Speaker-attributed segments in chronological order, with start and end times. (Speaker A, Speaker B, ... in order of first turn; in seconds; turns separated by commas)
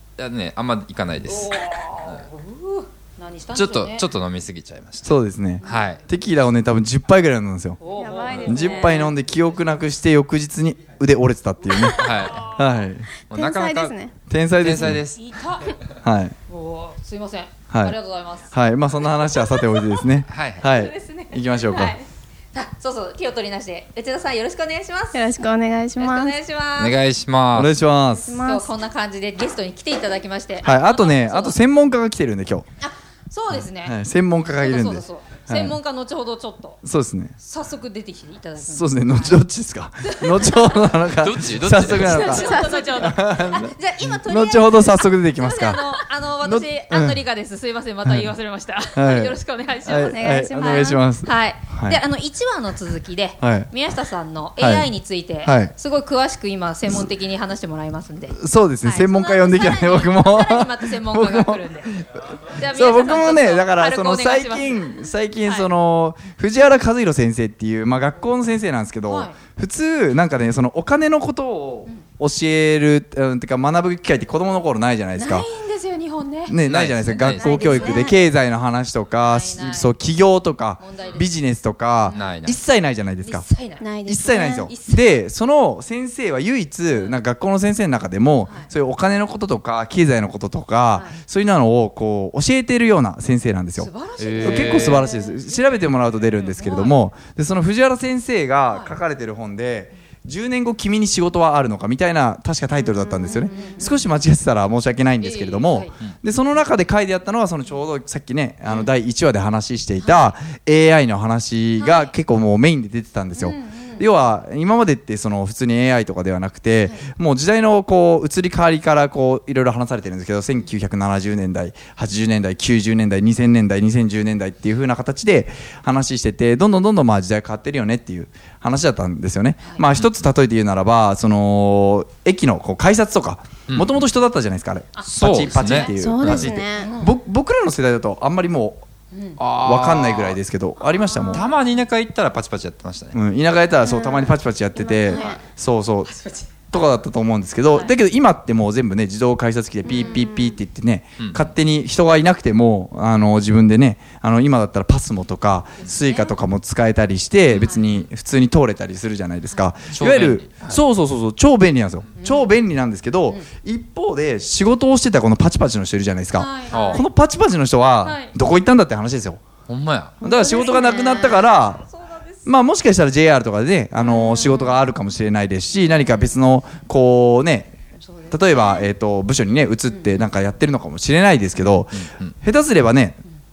Speaker A: 0.2-2.2, Speaker B: 1.2-4.1, Speaker A: 3.5-6.0, Speaker C: 5.0-7.8, Speaker B: 5.6-5.9, Speaker B: 7.8-9.1, Speaker D: 8.0-9.0, Speaker C: 8.3-13.2, Speaker A: 11.9-12.5, Speaker A: 13.3-13.9, Speaker D: 13.3-14.1, Speaker C: 14.3-15.0, Speaker A: 14.6-15.2, Speaker B: 15.1-15.7, Speaker C: 16.0-16.3, Speaker B: 16.5-18.5, Speaker C: 17.7-18.0, Speaker C: 18.5-21.9, Speaker B: 19.4-19.8, Speaker A: 20.3-20.6, Speaker B: 20.6-25.3, Speaker D: 25.1-26.3, Speaker B: 26.0-27.0, Speaker A: 26.8-27.7, Speaker C: 27.5-28.4, Speaker D: 28.2-28.7, Speaker B: 28.4-31.6, Speaker C: 30.6-32.6, Speaker B: 32.8-34.0, Speaker C: 33.5-35.8, Speaker B: 34.6-36.8, Speaker C: 36.8-37.3, Speaker B: 37.4-39.4, Speaker C: 38.6-45.8, Speaker B: 40.0-40.9, Speaker A: 41.2-42.5, Speaker B: 41.9-64.9, Speaker D: 42.4-43.1, Speaker C: 46.4-47.2, Speaker C: 48.0-48.3, Speaker C: 48.9-52.0, Speaker D: 50.1-51.0, Speaker C: 53.4-53.7, Speaker C: 54.6-54.9, Speaker C: 55.4-55.7, Speaker C: 58.3-75.5, Speaker B: 69.1-69.3, Speaker B: 75.2-76.6, Speaker C: 76.5-83.5, Speaker A: 76.6-77.8, Speaker B: 77.2-78.3, Speaker D: 77.6-78.2, Speaker B: 79.1-79.9, Speaker B: 80.8-81.3, Speaker B: 82.1-82.4, Speaker A: 82.1-82.6, Speaker B: 83.2-85.2, Speaker D: 83.8-84.7, Speaker C: 84.1-138.8, Speaker B: 86.9-87.2, Speaker B: 93.8-97.0, Speaker A: 94.2-95.1, Speaker B: 98.7-99.0, Speaker D: 102.8-103.8, Speaker B: 103.2-104.1, Speaker B: 105.2-105.9, Speaker B: 110.0-110.3, Speaker B: 111.8-112.1, Speaker B: 113.3-114.0, Speaker B: 129.6-129.9, Speaker A: 133.7-134.0, Speaker B: 134.9-135.9, Speaker A: 135.0-136.5, Speaker D: 135.9-136.9, Speaker B: 136.8-137.1, Speaker B: 139.1-139.4, Speaker A: 139.4-140.4, Speaker C: 139.6-141.5, Speaker A: 141.3-143.2, Speaker C: 143.1-146.1, Speaker D: 143.8-145.4, Speaker B: 145.1-145.4, Speaker B: 146.0-146.5, Speaker C: 146.7-169.4, Speaker D: 149.8-150.5, Speaker B: 149.9-150.2, Speaker A: 151.2-151.5, Speaker B: 155.8-156.3, Speaker A: 157.5-158.0, Speaker B: 157.6-157.8, Speaker A: 159.9-160.8, Speaker B: 162.2-162.5, Speaker B: 166.3-167.1, Speaker A: 166.7-167.0, Speaker B: 168.0-168.3, Speaker A: 169.7-170.2, Speaker D: 170.2-171.3, Speaker C: 170.2-171.8, Speaker B: 170.7-172.5, Speaker C: 172.4-177.8, Speaker B: 174.3-174.7, Speaker B: 175.8-176.3, Speaker B: 177.9-178.8, Speaker C: 178.3-183.2, Speaker B: 179.9-180.2, Speaker A: 181.9-182.3